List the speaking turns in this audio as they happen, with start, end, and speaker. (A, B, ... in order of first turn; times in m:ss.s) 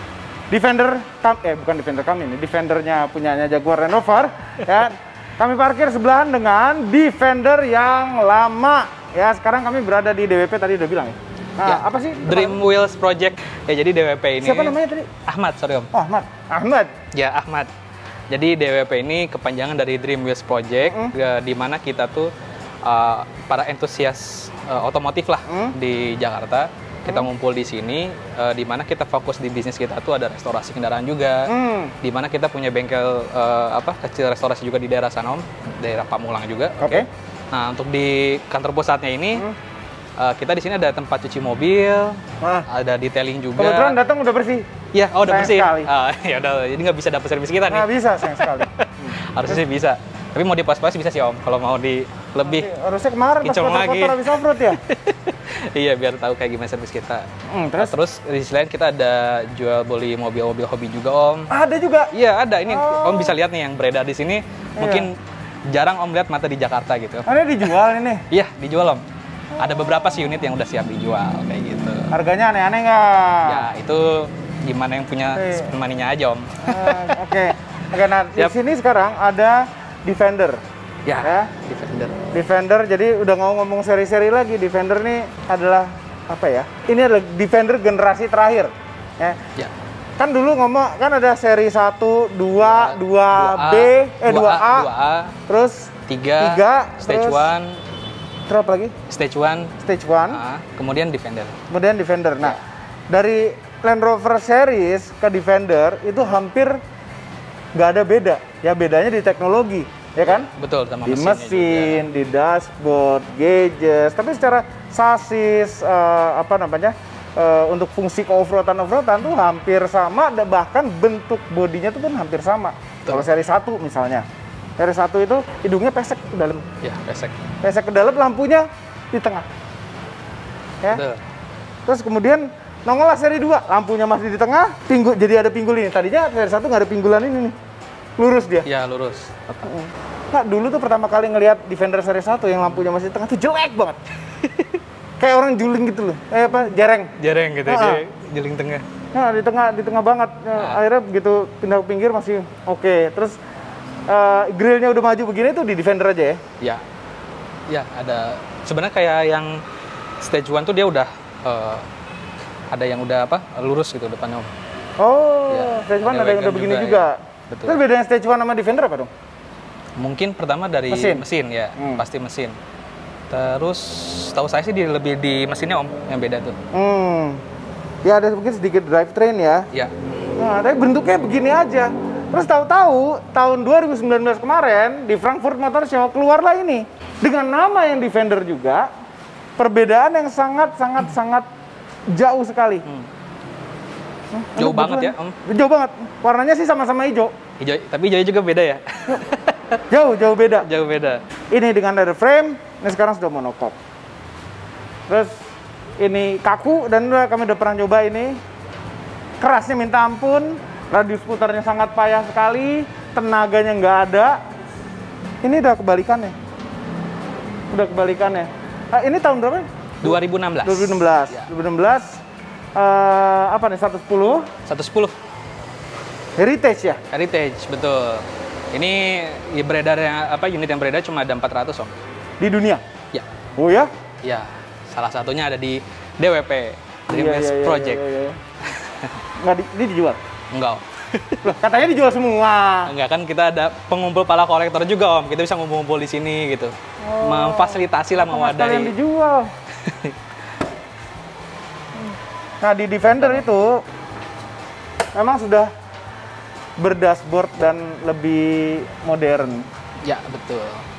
0:00.5-0:12.6 A
0:11.6-0:15.9 B
0:14.4-0:15.1 A
0:15.9-0:16.9 A
0:17.1-0:17.7 B
0:18.3-0:22.3 B
0:20.8-0:21.1 A
0:22.8-0:31.5 B
0:25.5-0:25.7 A
0:31.5-0:31.9 A
0:32.0-0:39.4 B
0:36.8-0:37.1 A
0:40.2-0:44.0 B
0:42.4-0:42.6 A
0:43.6-0:44.7 A
0:44.9-0:52.7 B
0:45.2-0:45.9 A
0:47.7-0:49.6 A
0:52.4-0:54.8 A
0:53.4-0:57.2 B
0:57.5-0:57.9 A
0:57.8-1:01.5 B
1:01.5-1:02.1 A
1:02.1-1:05.1 B
1:02.7-1:03.3 A
1:04.8-1:05.1 A
1:05.7-1:07.7 B
1:07.2-1:08.2 A
1:08.3-1:09.0 B
1:09.6-1:12.1 B
1:09.6-1:10.4 A
1:12.1-1:13.7 A
1:13.4-1:17.3 B
1:15.3-1:15.7 A
1:16.6-1:20.6 A
1:21.0-1:22.2 B
1:21.2-1:21.5 A
1:22.3-1:29.4 A
1:30.2-1:34.9 A
1:32.7-1:35.3 B
1:35.5-1:37.5 A
1:36.1-1:37.8 B
1:38.5-1:38.9 A
1:39.1-1:39.7 B
1:39.8-1:40.4 A
1:40.3-1:41.6 B
1:41.7-1:46.8 A
1:47.7-1:50.5 A
1:50.3-1:52.0 B
1:51.0-2:04.2 A
2:04.8-2:06.6 A
2:06.8-2:07.4 B
2:07.6-2:09.5 A
2:10.9-2:11.2 B
2:11.8-2:17.5 A
2:18.2-2:18.7 A
2:18.6-2:19.6 B
2:19.6-2:24.0 A
2:25.2-2:27.1 A
2:27.2-2:28.8 B
2:27.6-2:28.0 A
2:29.1-2:33.4 A
2:34.1-2:36.4 A
2:37.7-2:39.6 B
2:40.2-2:41.8 B
2:42.7-2:44.5 B
2:45.0-2:49.1 A
2:45.5-2:47.8 B
2:50.0-2:52.6 B
2:50.9-2:51.2 A
2:51.8-2:52.0 A
2:53.3-2:56.5 B
2:56.7-2:57.4 A
2:58.0-2:59.6 A
3:00.4-3:08.8 A
3:09.6-3:11.5 A
3:12.1-3:12.8 A
3:14.3-3:17.3 A
3:14.6-3:15.4 B
3:17.6-3:19.8 B
3:19.9-3:20.7 A
3:20.6-3:21.2 B
3:21.5-3:23.7 A
3:25.1-3:25.4 A
3:26.0-3:28.4 A
3:29.4-3:34.4 A
3:35.4-3:36.3 A
3:37.7-3:42.2 A
3:40.0-3:41.5 B
3:42.7-3:44.5 A
3:44.6-3:45.1 B
3:46.4-3:47.0 A
3:47.1-3:52.0 B
3:52.4-3:52.8 A
3:53.6-3:53.9 A
3:54.2-3:58.0 B
3:57.1-3:58.4 A
3:58.8-3:59.1 B
3:59.4-4:00.2 A
4:00.5-4:01.6 B
4:01.4-4:02.9 A
4:02.8-4:08.9 B
4:07.0-4:09.5 A
4:09.8-4:10.2 B
4:12.6-4:13.8 A
4:13.0-4:13.5 B
4:15.1-4:15.7 A
4:16.8-4:19.7 A
4:20.0-4:20.8 B